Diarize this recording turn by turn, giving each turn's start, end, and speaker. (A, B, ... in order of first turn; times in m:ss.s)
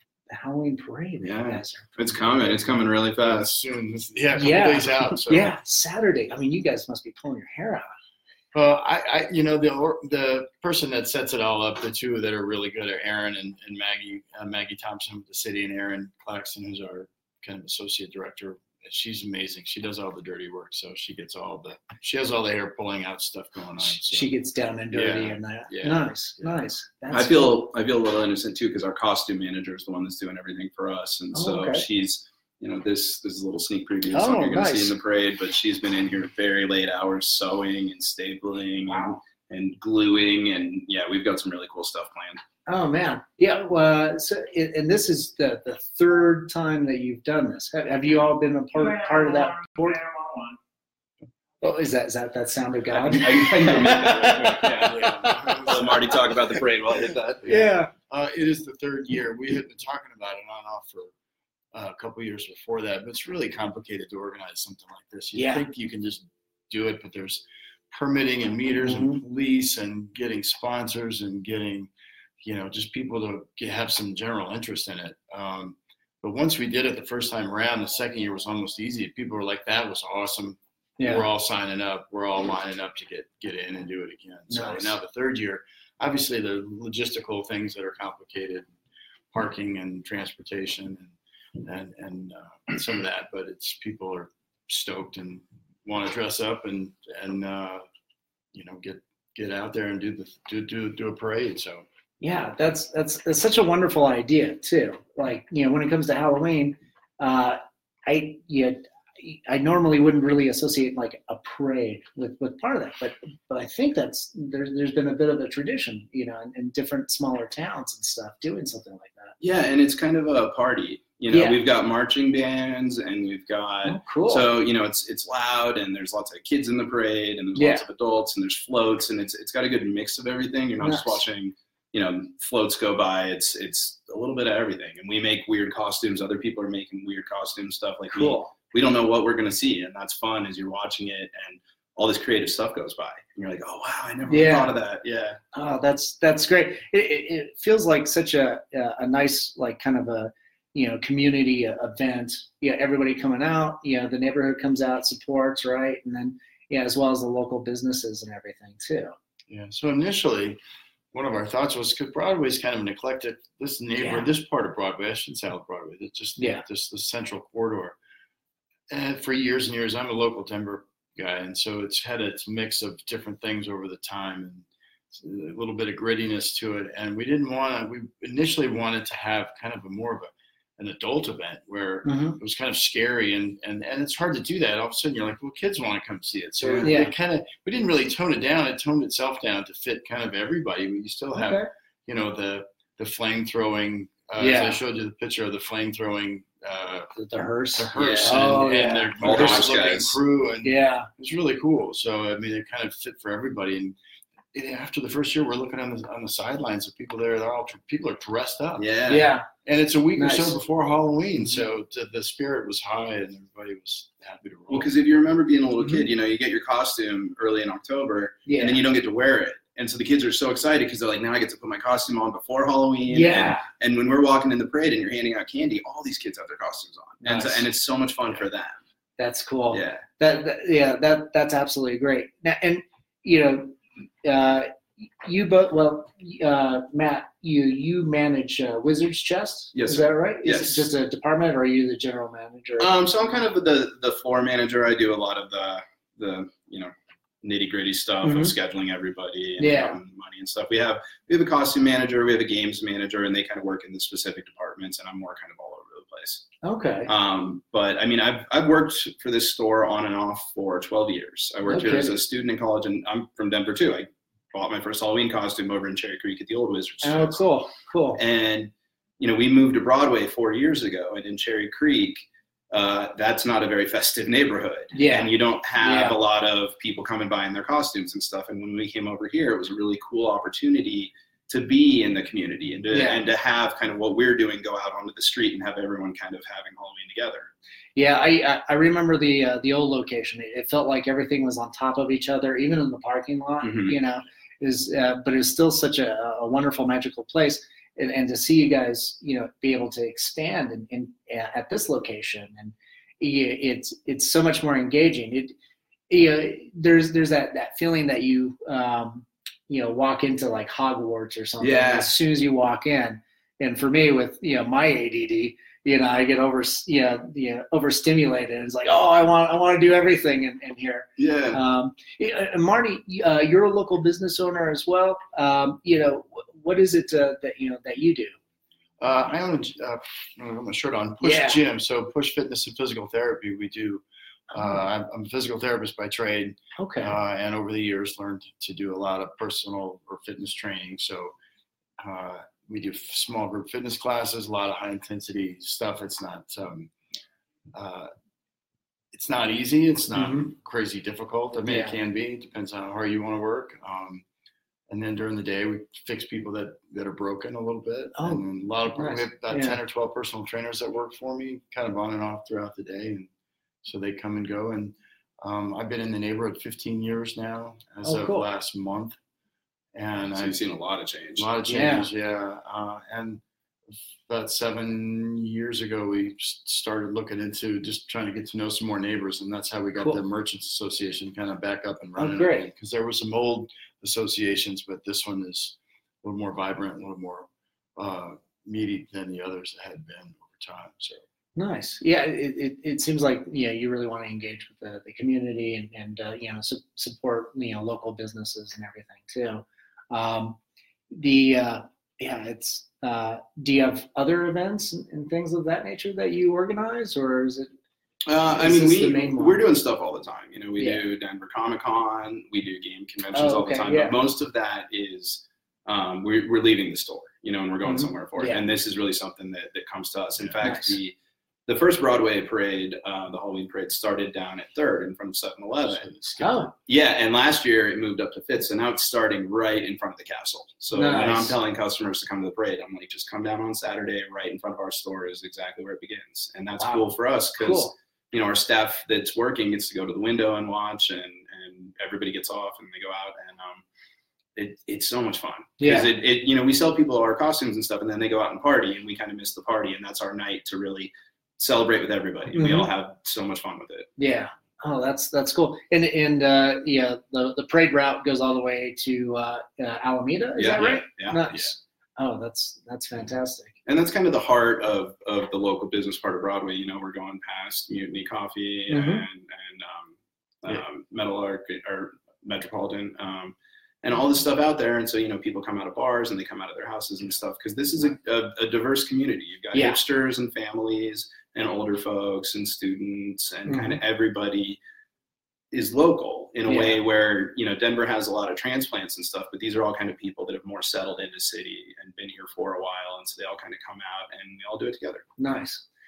0:00.3-0:02.6 A
0:01.2-0:03.5 B
0:03.2-0:05.6 C
0:04.3-0:07.9 A
0:08.5-0:24.3 C
0:24.0-0:27.6 A
0:24.9-0:26.6 C
0:27.1-0:42.4 B
0:31.3-0:31.8 A
0:34.1-0:34.9 A
0:42.7-0:50.4 A
0:51.6-0:56.4 A
0:52.9-0:57.5 B
0:54.8-0:56.1 C
0:57.4-1:01.1 C
0:57.4-0:57.9 A
1:01.7-1:28.7 C
1:05.4-1:05.7 A
1:08.8-1:09.2 A
1:21.0-1:21.3 A
1:24.5-1:24.9 A
1:29.3-1:37.8 C
1:38.5-1:41.9 C
1:42.2-1:59.4 A
1:59.4-2:25.4 B
2:01.3-2:01.6 A
2:03.8-2:04.5 A
2:07.6-2:07.8 A
2:10.8-2:11.2 A
2:18.1-2:18.5 A
2:24.3-2:24.8 A
2:25.5-2:39.2 A
2:39.5-2:40.6 C
2:41.1-2:48.0 C
2:44.0-2:44.3 A
2:46.4-2:46.6 A
2:48.9-3:17.1 C
3:02.0-3:02.4 A
3:06.6-3:06.9 B
3:06.8-3:07.1 A
3:11.4-3:11.7 A
3:14.4-3:14.8 A
3:17.2-3:19.7 A
3:17.7-3:24.0 C
3:18.0-3:18.7 B
3:19.2-3:20.2 B
3:20.6-3:21.1 A
3:24.5-3:29.1 C
3:28.8-3:29.3 B
3:29.1-3:29.5 A
3:29.6-3:34.9 C
3:30.2-3:30.6 A
3:34.7-3:48.8 B
3:35.8-3:36.0 A
3:38.5-3:38.8 A
3:43.1-3:43.7 A
3:47.2-3:47.6 A
3:49.2-4:02.9 A
3:49.7-3:50.0 B
3:59.7-4:00.9 B
4:02.8-4:06.9 B
4:07.4-4:16.4 B
4:08.2-4:08.5 A
4:09.6-4:10.0 A
4:16.6-4:17.1 A
4:17.1-4:27.4 B
4:21.7-4:22.2 A
4:27.0-4:28.2 A
4:28.2-4:32.2 B
4:32.7-4:47.5 B
4:34.9-4:36.2 A
4:42.9-4:43.3 A
4:48.0-5:05.6 A
4:53.6-4:54.0 B
5:06.1-5:28.4 A
5:11.6-5:12.1 B
5:21.2-5:21.6 B
5:29.0-5:41.3 C
5:31.2-5:31.6 A
5:36.8-5:37.1 A
5:42.0-5:46.9 C
5:47.7-5:48.1 C
5:49.1-5:54.2 C
5:50.2-5:50.5 A
5:51.7-5:52.0 A
5:54.9-6:03.3 C
5:58.2-5:58.4 A
5:58.9-5:59.8 A
6:03.8-6:09.2 C
6:08.0-6:08.5 A
6:09.9-6:10.6 C
6:10.3-6:11.5 B
6:11.4-6:31.2 C
6:11.7-6:12.1 A
6:22.2-6:22.7 A
6:31.6-6:40.6 A
6:41.1-6:47.7 A
6:48.3-7:01.2 B
6:48.5-6:49.6 A
6:50.8-6:51.0 A
6:53.3-6:54.2 A
6:57.8-6:58.6 A
7:00.6-7:01.0 A
7:01.7-7:06.1 B
7:05.9-7:06.6 C
7:06.4-7:06.7 A
7:06.9-7:23.8 B
7:10.9-7:11.6 A
7:16.8-7:17.9 A
7:24.6-7:34.1 B
7:25.8-7:26.1 A
7:32.5-7:32.9 A
7:34.2-7:43.7 A
7:40.6-7:41.7 B
7:43.9-8:04.8 B
7:48.9-7:49.2 A
7:59.7-8:00.0 A
8:03.7-8:04.0 A
8:05.7-8:15.2 B
8:06.7-8:07.0 A
8:15.4-8:15.8 A